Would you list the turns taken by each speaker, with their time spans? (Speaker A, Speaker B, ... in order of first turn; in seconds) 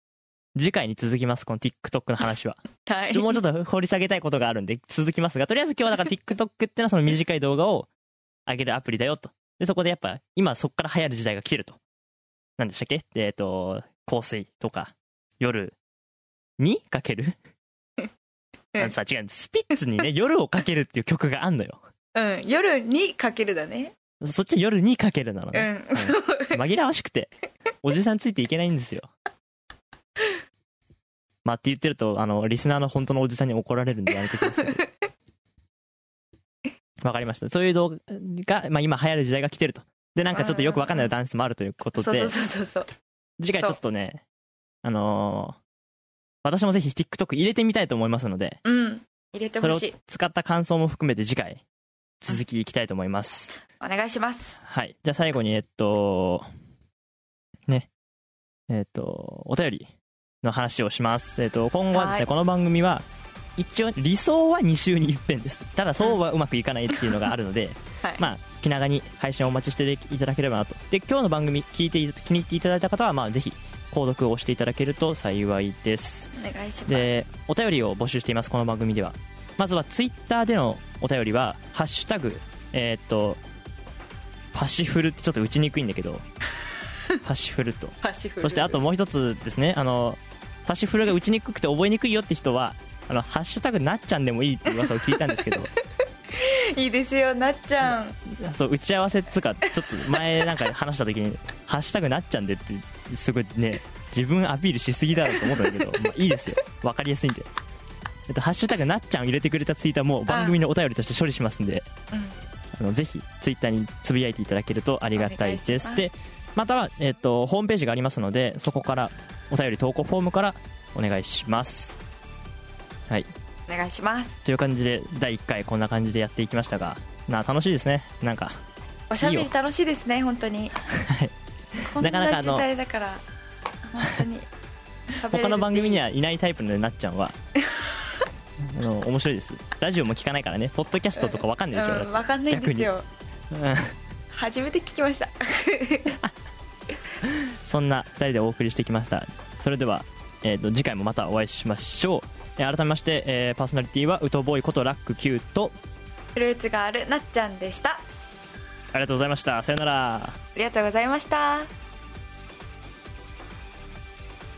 Speaker A: 0.6-7.9, 8.5-11.8, 12.6-15.8, 16.6-17.4, 18.8-21.8, 24.2-27.3, 27.8-29.1, 31.4-34.8, 37.0-42.3, 43.4-44.2, 44.8-45.6, 46.4-48.6, 49.6-51.6, 52.2-53.5, 54.6-56.5, 58.7-59.9, 60.4-63.1, 63.6-76.3, 76.9-83.4, 84.5-86.2, 87.2-95.7, 97.8-107.5, 108.3-111.9, 112.8-122.0, 124.5-128.6, 129.2-129.5, 130.9-132.7, 135.3-137.3, 138.6-142.9, 143.5-144.0, 147.2-155.8, 158.9-160.4
Speaker B: 2.9-3.4, 22.1-23.9, 25.5-26.6, 34.4-34.9, 40.3-41.1, 42.0-42.9, 48.6-50.0, 53.8-54.6, 61.9-62.3, 76.3-77.1, 88.0-88.8, 94.7-95.5, 96.3-98.2, 99.7-100.5, 105.3-106.0, 110.3-110.6, 115.2-116.1, 123.7-124.4, 129.1-130.8, 131.9-133.2, 133.9-134.5, 135.1-136.0, 137.7-138.2, 141.2-143.1, 144.3-146.2, 156.3-158.0, 160.6-161.7